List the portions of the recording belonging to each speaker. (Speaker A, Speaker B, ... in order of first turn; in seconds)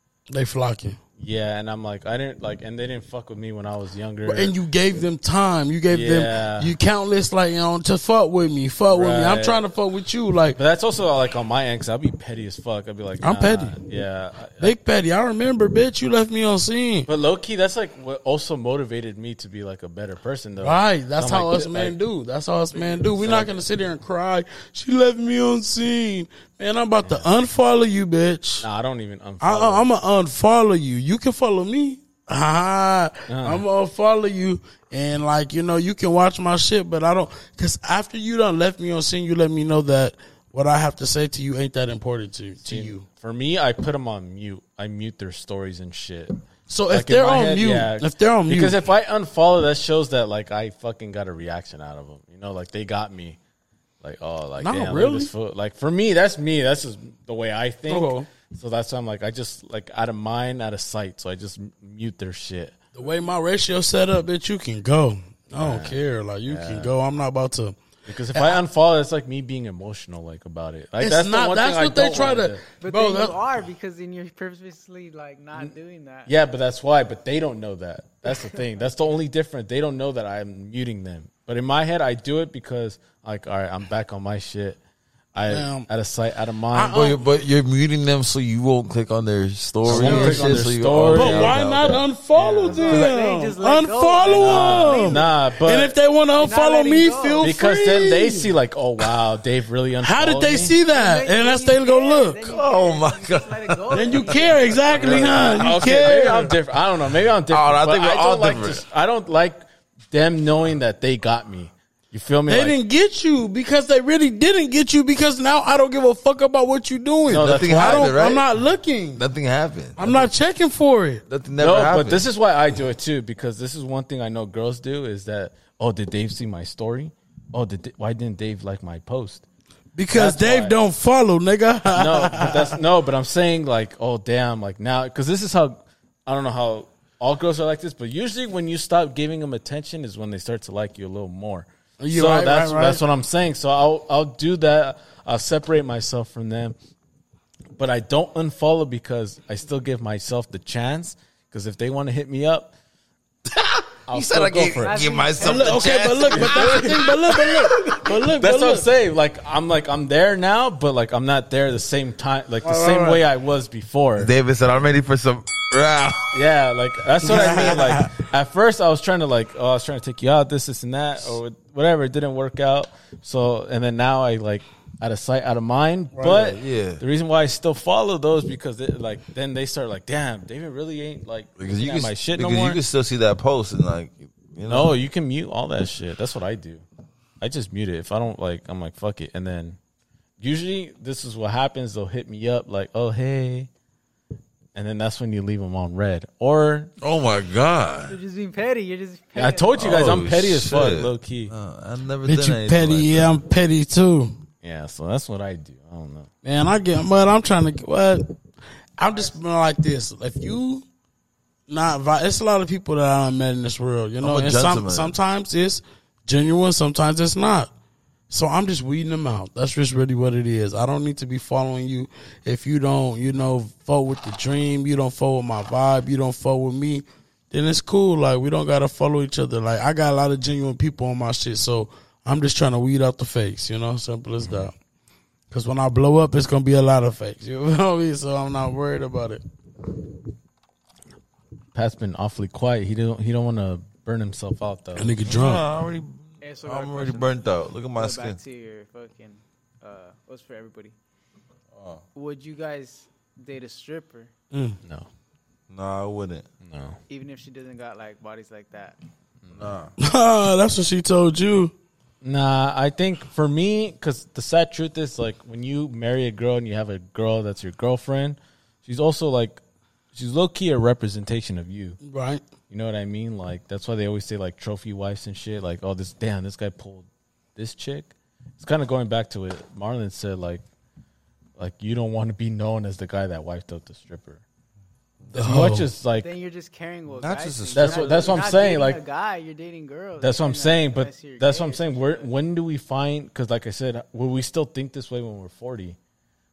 Speaker A: 0.3-1.0, 4.2-10.6, 13.2-13.8, 14.6-17.1, 20.6-28.6, 29.4-43.0, 46.7-48.8, 54.6-55.3, 57.9-58.3, 62.9-67.8, 68.3-68.6, 71.0-73.4, 85.5-85.9, 86.7-87.2, 89.8-98.5, 100.0-102.5, 103.9-106.6, 112.5-119.2, 120.0-121.2, 129.9-132.8, 142.0-143.0, 155.4-158.9, 162.6-163.2, 167.2-168.1, 176.1-176.5, 202.2-204.4, 206.4-208.2, 209.0-210.8, 211.7-217.7, 218.3-234.7, 235.5-239.4, 244.9-245.6, 254.5-254.8, 260.0-261.7, 272.0-272.4, 285.3-285.9
Speaker B: 1.2-4.5, 5.9-6.7, 8.9-9.6, 10.5-14.7, 17.1-22.0, 23.1-23.6, 28.6-29.8, 33.3-33.6, 42.6-46.4, 46.9-53.4, 54.0-62.8, 65.6-66.9, 68.0-72.6, 76.3-84.8, 85.3-87.1, 89.8-91.7, 92.4-93.1, 94.3-96.0, 97.4-100.8, 104.9-112.8, 117.3-118.1, 121.6-129.4, 130.1-130.8, 131.9-146.7, 147.8-152.7, 154.1-155.1, 156.3-164.3, 166.3-182.8, 184.7-186.8, 187.4-189.8, 190.4-193.7, 194.7-196.9, 199.3-201.5, 204.6-206.3, 241.7-245.1, 256.6-257.0, 262.2-269.6, 270.1-272.0, 272.7-280.6, 281.6-284.4, 285.3-286.3, 287.7-289.0, 290.2-296.0
Speaker C: 72.8-76.3, 92.5-95.3, 96.4-97.5, 100.9-105.9, 154.8-156.8, 198.1-200.2, 246.4-250.9, 252.1-254.3, 257.1-259.0, 286.2-292.3
Speaker D: 86.9-92.0, 102.4-105.1, 107.5-108.8, 117.4-118.4, 119.2-120.3, 121.3-122.2, 153.6-157.7, 164.2-166.3, 176.2-177.0, 181.6-184.9, 197.0-198.2, 199.7-203.4, 214.2-215.1, 245.2-248.4, 251.8-252.0, 255.7-256.5, 259.5-259.9, 287.1-288.5